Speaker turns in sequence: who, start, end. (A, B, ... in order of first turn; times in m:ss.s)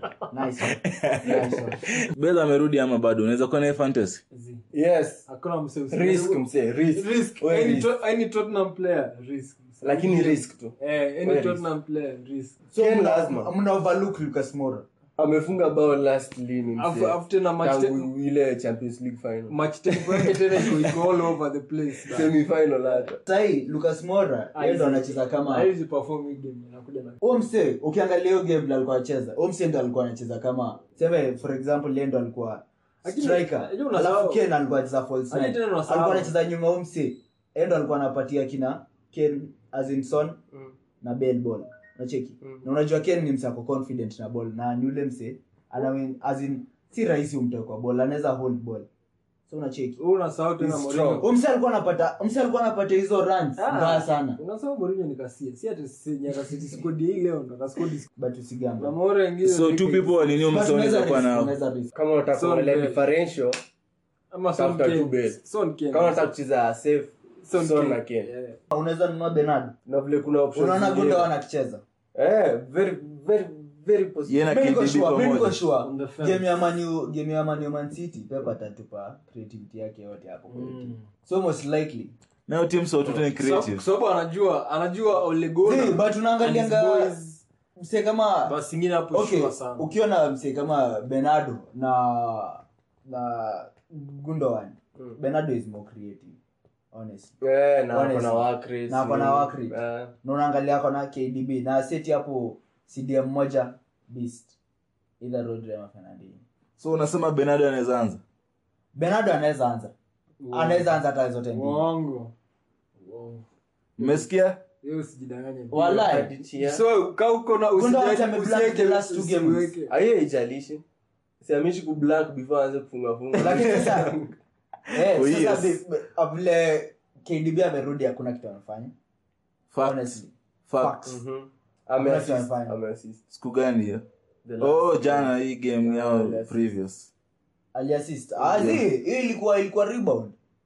0:00.3-0:00.7 A
0:00.8-0:04.2 B
0:01.2-0:01.7 C
0:01.3-0:01.7 A
0:04.3-0:04.6 D
0:04.7-0:05.2 C
0:05.2-0:12.8 D
0:05.9-0:07.9 C
0:09.8-0:11.6 C
0:12.7-0:14.9 A
0:12.8-0:13.5 C
0:15.2-0:21.0 C
0:16.8-0:18.1 D
0:19.5-0:23.1 D
0:22.0-0:23.2 C
0:23.2-0:25.7 A
0:24.5-0:27.2 D
0:27.2-0:40.4 A
0:33.0-0:34.5 D
0:35.3-0:36.3 D
0:41.0-0:48.9 A
0:42.4-0:42.6 C
0:49.5-0:50.0 A
0:50.0-0:51.3 D
0:50.6-0:54.4 A
0:50.8-0:51.2 C
0:53.6-0:58.1 D
0:58.2-0:59.0 A
0:58.8-1:00.4 D
0:59.4-1:01.6 B
1:00.5-1:01.9 A
1:01.9-1:03.6 C
1:02.3-1:03.1 D
1:04.3-1:06.3 D
1:04.5-1:05.4 C
1:05.9-1:08.3 C
1:07.4-1:08.6 D
1:08.7-1:09.8 A
1:09.8-1:11.3 C
1:10.5-1:11.8 A
1:12.1-1:14.6 C
1:14.3-1:15.6 B
1:14.5-1:22.1 A
1:15.7-1:16.6 D
1:20.5-1:21.0 D
1:22.5-1:23.8 B
1:23.0-1:27.4 D
1:25.6-1:27.1 A
1:27.8-1:28.6 A
1:28.4-1:30.0 D
1:29.1-1:36.4 A
1:36.9-1:37.3 A
1:37.4-1:40.1 C
1:37.9-1:44.6 A
1:45.2-1:46.4 A
1:46.8-1:48.2 B
1:48.9-1:49.9 A
1:50.4-1:52.3 D
1:50.5-1:51.8 A
1:53.0-1:53.4 D
1:54.0-1:54.6 B
1:54.0-1:54.2 D
1:54.8-1:59.9 D
1:55.7-1:56.3 A
1:56.1-1:56.8 C
1:57.7-1:59.7 A
1:59.9-2:00.8 C
2:01.4-2:04.3 C
2:03.4-2:04.1 A
2:04.9-2:08.9 A
2:05.0-2:05.8 B
2:09.7-2:11.1 B
2:09.8-2:11.2 A
2:11.0-2:13.2 C
2:12.0-2:12.8 A
2:13.3-2:14.0 B
2:14.4-2:16.8 C
2:14.6-2:17.1 B
2:17.7-2:20.3 A
2:18.6-2:18.8 B